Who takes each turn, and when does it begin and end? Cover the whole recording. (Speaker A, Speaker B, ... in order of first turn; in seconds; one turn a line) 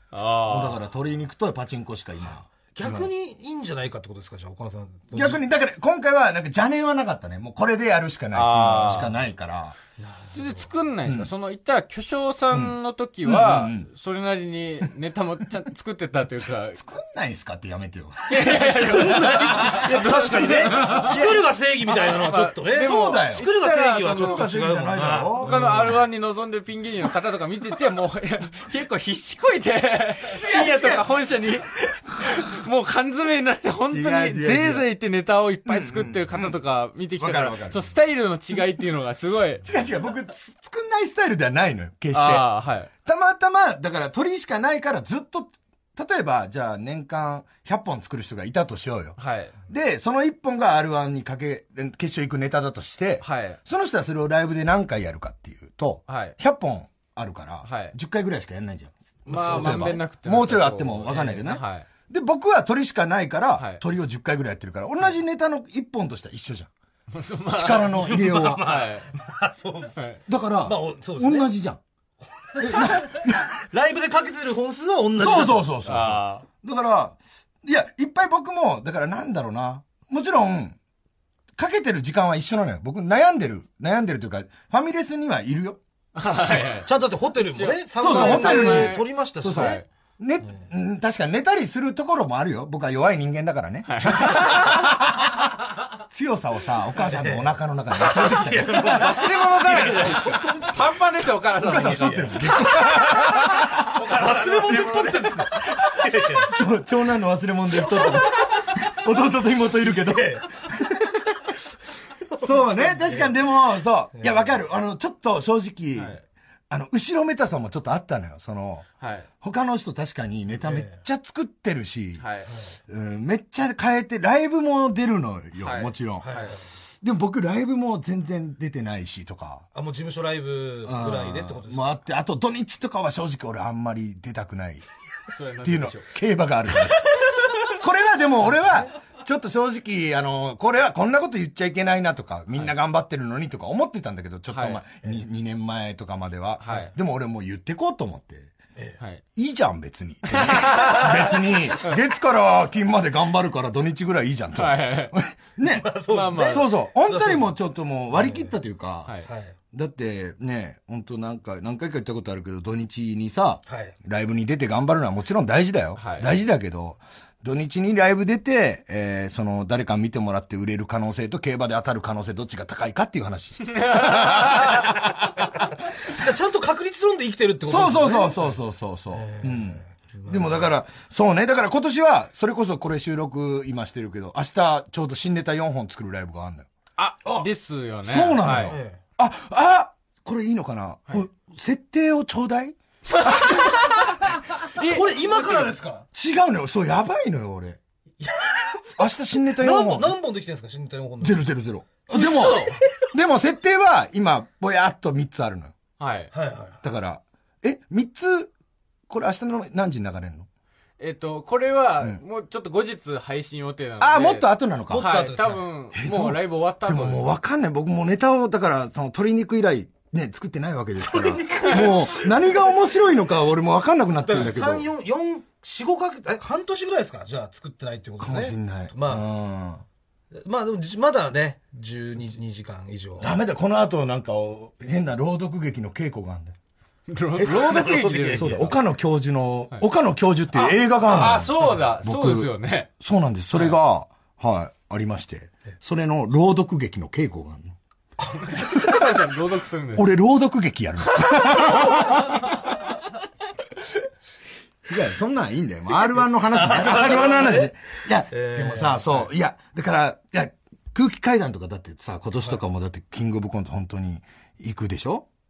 Speaker A: 0.1-0.8
Speaker B: 0.5-3.1
Speaker C: 2.3-5.5
Speaker B: 5.1-9.8
Speaker A: 8.3-9.2
Speaker C: 10.0-10.7
Speaker A: 10.3-16.8
Speaker B: 12.5-13.9
Speaker B: 16.8-20.9
Speaker A: 18.3-24.5
Speaker C: 19.0-26.0
Speaker B: 22.7-25.6
Speaker A: 25.4-39.6
Speaker B: 30.4-31.1
Speaker B: 33.9-34.9
Speaker B: 35.7-36.6
Speaker B: 37.2-37.9
Speaker B: 39.6-42.5
Speaker A: 42.1-42.9
Speaker B: 43.0-49.2
Speaker A: 49.2-49.5
Speaker B: 49.7-66.7
Speaker A: 53.2-53.6
Speaker A: 56.1-56.4
Speaker A: 57.6-57.9
Speaker A: 59.3-61.9
Speaker A: 63.6-63.8
Speaker A: 67.1-69.1
Speaker B: 67.5-68.8
Speaker C: 68.0-70.0
Speaker B: 70.3-71.8
Speaker C: 70.6-71.5
Speaker B: 72.6-73.5
Speaker C: 73.6-75.7
Speaker B: 75.2-80.8
Speaker A: 75.8-76.5
Speaker B: 81.6-85.8
Speaker A: 86.2-89.8
Speaker C: 86.8-89.8
Speaker B: 88.0-95.3
Speaker A: 93.9-94.8
Speaker B: 96.0-99.2
Speaker C: 97.0-100.8
Speaker A: 98.7-105.4
Speaker B: 101.6-103.8
Speaker C: 101.8-102.3
Speaker C: 104.1-106.5
Speaker B: 106.3-111.4
Speaker C: 107.7-108.3
Speaker C: 109.8-110.5
Speaker C: 112.3-113.4
Speaker B: 112.4-116.2
Speaker C: 114.1-114.5
Speaker A: 116.0-116.2
Speaker B: 116.7-118.9
Speaker A: 119.0-119.3
Speaker B: 119.4-122.2
Speaker C: 120.6-121.0
Speaker A: 122.2-122.5
Speaker B: 122.9-126.4
Speaker A: 125.6-126.5
Speaker C: 126.2-126.6
Speaker B: 127.0-129.7
Speaker C: 129.7-132.0
Speaker B: 130.9-134.8
Speaker A: 135.3-136.1
Speaker B: 135.6-148.5
Speaker A: 136.8-137.8
Speaker A: 144.5-144.8
Speaker A: 146.6-146.9
Speaker B: 149.4-159.2
Speaker A: 150.3-151.3
Speaker A: 154.6-155.2
Speaker C: 155.6-157.6
Speaker A: 156.1-156.7
Speaker C: 158.1-158.5
Speaker C: 159.3-159.6
Speaker B: 159.7-175.0
Speaker C: 163.7-164.0
Speaker A: 166.0-166.3
Speaker A: 173.8-174.9
Speaker C: 176.1-178.6
Speaker B: 177.7-186.7
Speaker C: 179.1-180.7
Speaker A: 187.0-188.8
Speaker B: 188.1-194.2
Speaker C: 188.5-189.0
Speaker A: 193.1-195.7
Speaker C: 194.9-196.1
Speaker B: 196.1-197.8
Speaker C: 198.2-199.0
Speaker B: 199.0-200.2
Speaker C: 199.6-201.5
Speaker B: 201.2-205.8
Speaker A: 202.1-202.8
Speaker C: 202.2-202.8
Speaker A: 206.0-206.3
Speaker C: 206.3-206.8
Speaker B: 206.8-208.5
Speaker B: 209.1-210.5
Speaker A: 211.0-217.3
Speaker B: 214.0-215.1
Speaker C: 214.9-215.7
Speaker B: 215.9-224.9
Speaker C: 221.0-222.7
Speaker C: 224.2-229.3
Speaker B: 228.2-229.8
Speaker C: 230.3-233.3
Speaker B: 233.2-236.6
Speaker A: 237.1-238.7
Speaker C: 237.4-238.7
Speaker B: 238.3-247.8
Speaker A: 240.5-242.9
Speaker A: 248.2-250.2
Speaker B: 249.9-252.5
Speaker A: 251.2-252.5
Speaker B: 254.9-265.3
Speaker C: 256.5-257.7
Speaker C: 258.3-259.3